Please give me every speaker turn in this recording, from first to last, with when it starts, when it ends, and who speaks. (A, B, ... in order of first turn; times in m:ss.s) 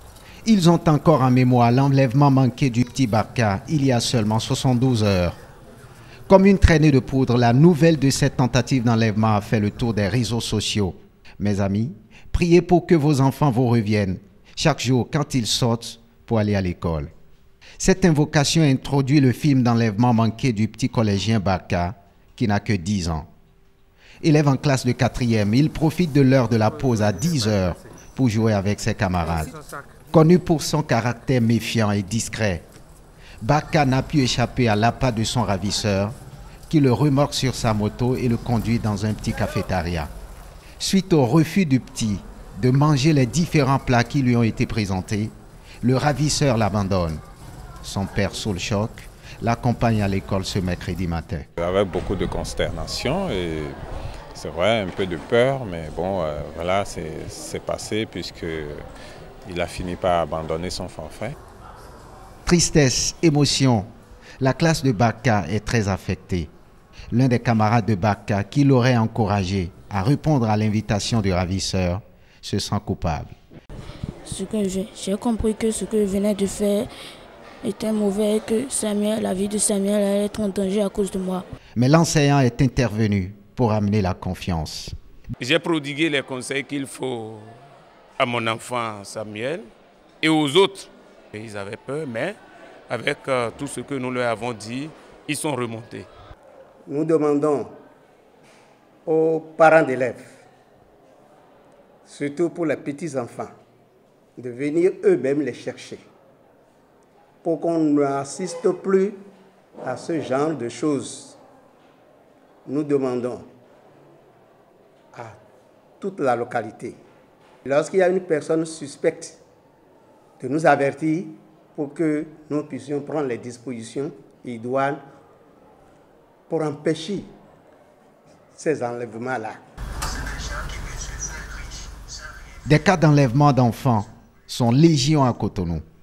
0:00.4-0:05.4 A
0:06.3-0:17.1 A
0:17.8-0:23.3 A
0:24.2-0:29.5 A
0:30.1-0:32.6 A
0:33.4-0:36.2 A
0:36.7-0:40.1 A
0:40.8-0:47.2 A
0:47.8-0:51.5 A
0:51.6-0:53.8 B
0:54.4-0:58.8 B
0:59.4-1:01.4 B
1:02.4-1:03.9 A
1:04.4-1:06.5 A
1:07.1-1:13.4 A
1:14.3-1:16.9 C
1:17.6-1:21.4 C
1:21.8-1:24.9 A
1:25.4-1:27.6 D
1:28.2-1:29.7 D
1:30.2-1:32.4 D
1:32.9-1:36.1 D
1:36.9-1:37.8 E
1:39.1-1:40.4 E
1:42.1-1:43.5 E
1:44.4-1:46.0 E
1:47.4-1:49.2 E
1:49.8-1:51.4 E
1:52.7-1:53.5 E
1:56.0-1:57.0 E
1:57.6-1:59.4 E
2:00.4-2:05.0 E
2:06.5-2:07.3 E
2:08.6-2:09.6 E
2:12.7-2:15.8 A